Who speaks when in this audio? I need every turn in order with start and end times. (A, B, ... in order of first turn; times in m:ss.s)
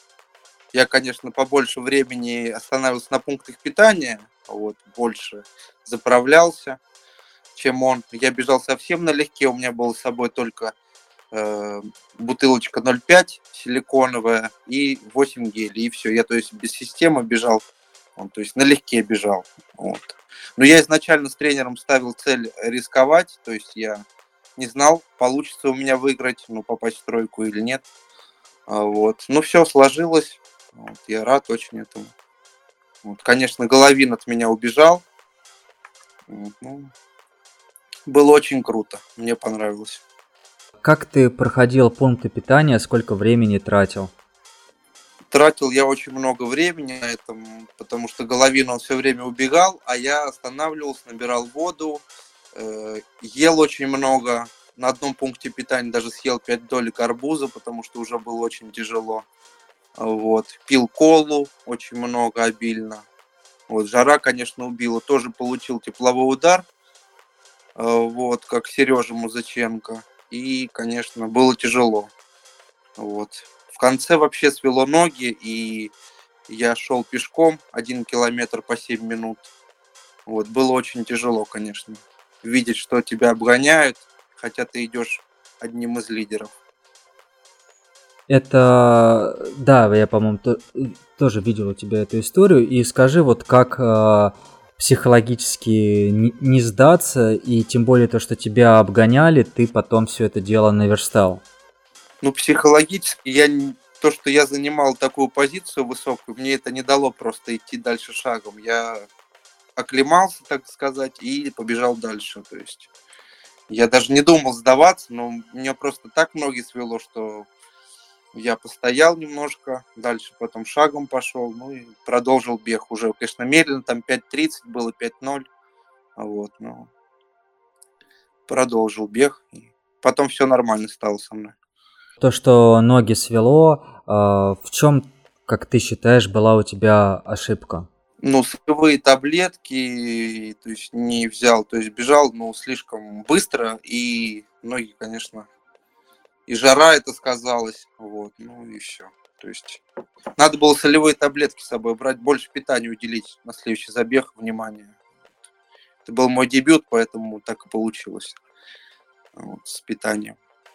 0:00.7-0:06.8 A
0:07.6-0:10.7 A
0:11.3-0:17.6 A
0:18.2-0:24.0 A
0:24.6-0:27.8 A
0:28.7-0:32.1 A
0:33.0-0:35.0 A
0:36.3-0:36.9 A
0:38.1-0:40.0 A
0:40.8-0:44.1 B
0:45.3-0:59.2 A
1:00.0-1:03.0 A
1:03.7-1:06.7 A
1:07.8-1:12.1 A
1:13.0-1:15.9 A
1:16.5-1:19.5 A
1:20.3-1:26.5 A
1:28.3-1:41.4 B
1:42.2-1:49.1 A
1:49.8-1:52.9 A
1:53.7-1:57.5 A
1:58.4-2:05.5 A
2:06.2-2:06.9 A
2:08.5-2:11.5 A
2:12.2-2:17.9 B
2:18.2-2:25.5 A
2:26.5-2:29.8 A
2:30.4-2:34.9 A
2:36.0-2:38.4 A
2:39.4-2:40.4 A